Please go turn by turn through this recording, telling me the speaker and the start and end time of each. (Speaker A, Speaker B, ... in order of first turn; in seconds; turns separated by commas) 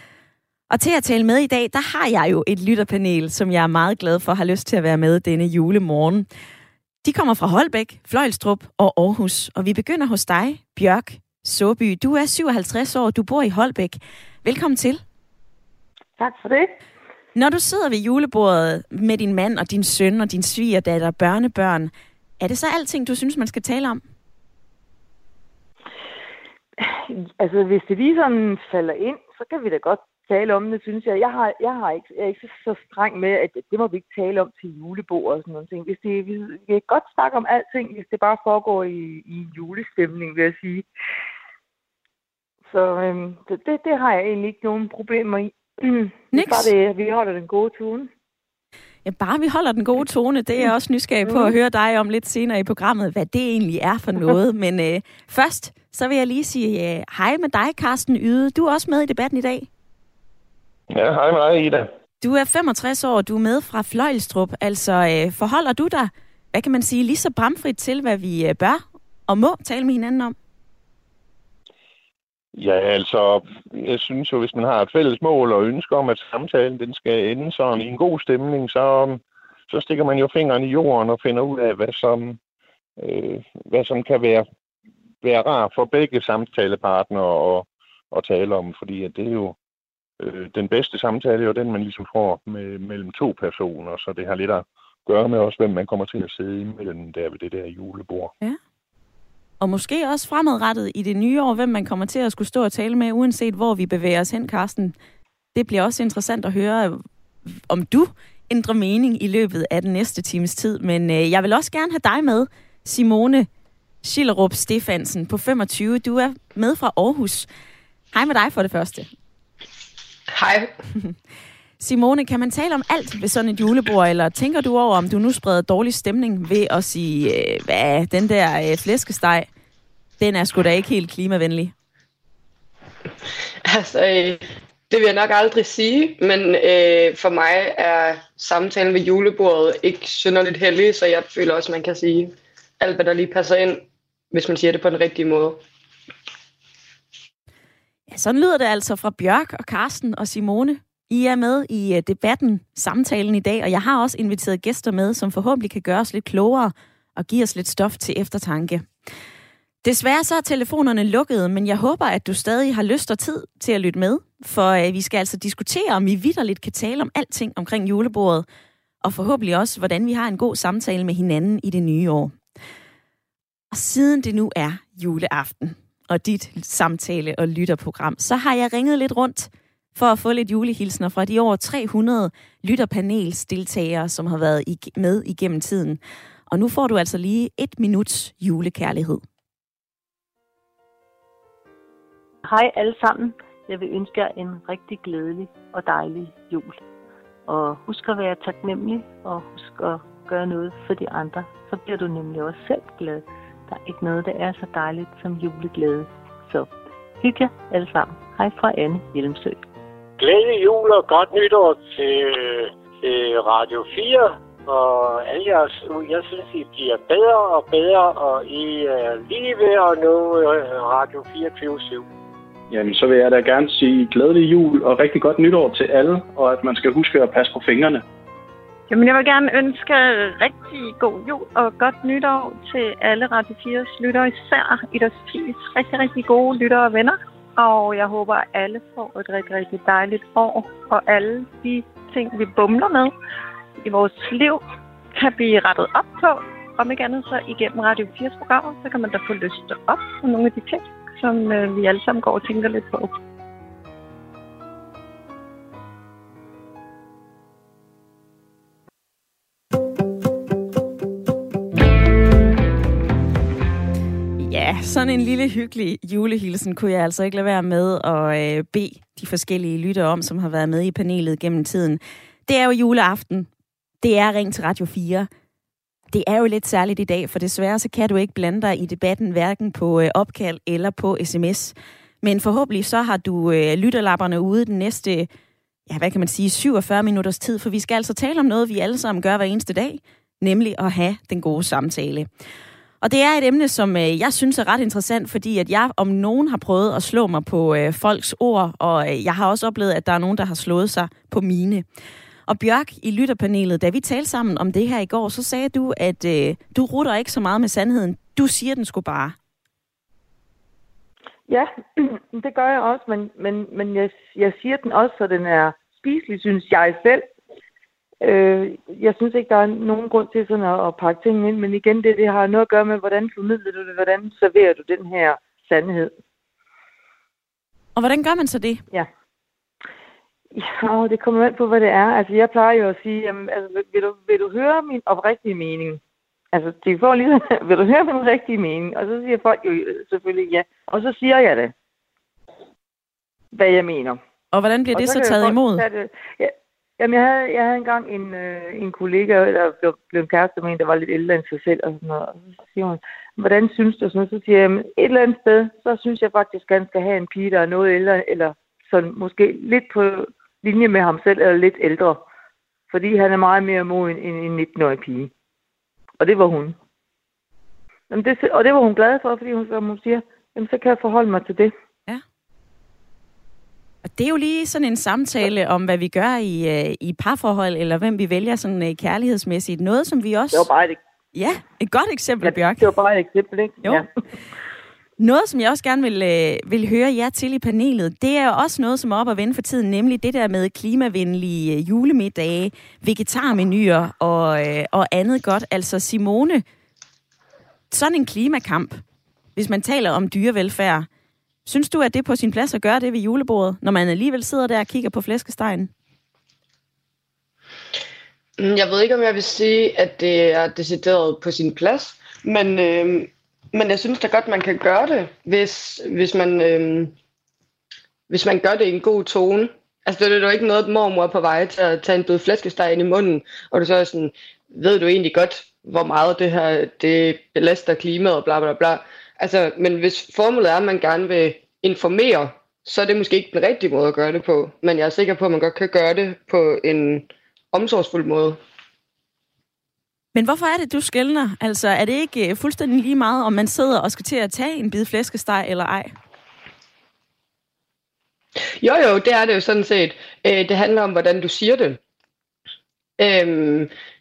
Speaker A: 0.7-6.3, Speaker A: 7.0-15.0, Speaker B: 16.2-16.7, Speaker A: 17.4-24.0, Speaker B: 26.8-40.9, Speaker B: 42.7-48.1, Speaker A: 46.3-46.7, Speaker A: 49.0-59.7, Speaker B: 51.3-51.5, Speaker C: 60.9-61.9, Speaker A: 62.2-70.4, Speaker C: 72.5-82.4, Speaker C: 83.0-84.5, Speaker C: 85.2-89.5, Speaker C: 90.2-98.3, Speaker A: 99.6-105.0, Speaker A: 105.5-113.5, Speaker A: 114.0-117.5, Speaker A: 118.1-119.1, Speaker D: 120.3-120.7, Speaker A: 121.8-129.5, Speaker A: 130.2-131.7, Speaker D: 133.7-145.6, Speaker A: 148.1-158.9, Speaker A: 159.8-168.5, Speaker A: 169.0-172.4, Speaker A: 173.7-186.0, Speaker A: 186.5-189.2, Speaker E: 192.4-196.8, Speaker E: 197.5-209.6, Speaker F: 210.2-222.1, Speaker G: 222.7-228.0, Speaker H: 228.9-243.1, Speaker H: 243.8-253.2, Speaker A: 264.4-273.5, Speaker A: 274.0-275.3, Speaker A: 276.1-285.3, Speaker A: 285.9-292.3, Speaker A: 293.0-301.9, Speaker A: 302.5-309.4, Speaker B: 311.5-317.3, Speaker B: 318.2-326.1, Speaker A: 328.0-328.8, Speaker B: 330.5-336.0, Speaker B: 336.5-341.7, Speaker B: 343.5-344.2, Speaker A: 344.5-345.8, Speaker B: 344.9-362.2, Speaker B: 362.9-365.3, Speaker B: 366.2-366.8, Speaker B: 368.1-371.7, Speaker A: 374.1-380.7, Speaker B: 380.5-381.0, Speaker A: 381.4-382.8, Speaker B: 382.4-384.1, Speaker A: 385.2-396.6, Speaker A: 397.9-399.0, Speaker A: 399.6-401.1, Speaker A: 401.7-405.9, Speaker D: 408.6-417.1, Speaker D: 418.3-438.6, Speaker A: 440.4-446.1, Speaker D: 448.8-452.0, Speaker D: 453.2-453.9